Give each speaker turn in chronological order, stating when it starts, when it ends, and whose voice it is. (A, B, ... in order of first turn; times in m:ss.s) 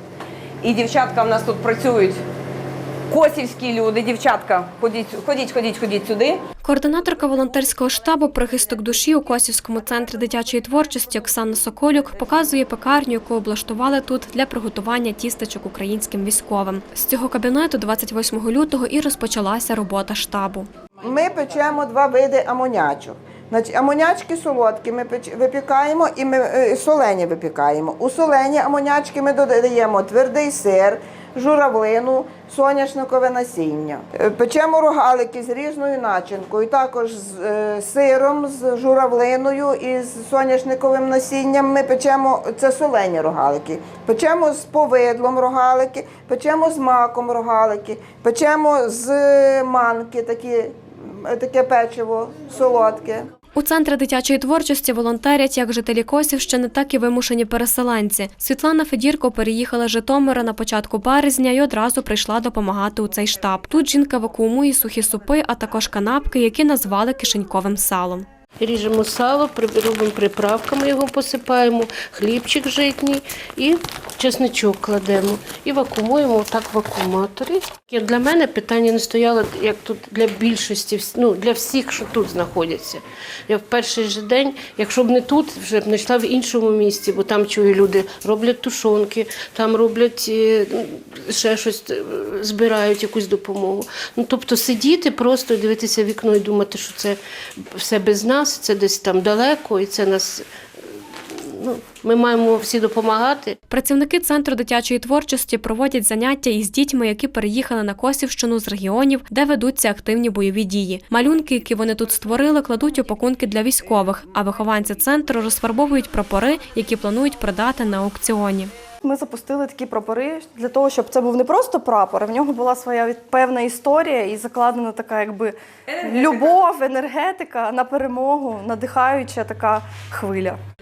0:00.6-0:02.2 A
0:03.1-0:06.4 A
0:06.6-0:20.7 B
0:21.0-0:53.2 C
0:53.5-1:08.2 B
1:08.6-1:43.6 D
1:43.7-1:58.7 B
1:59.0-2:10.6 E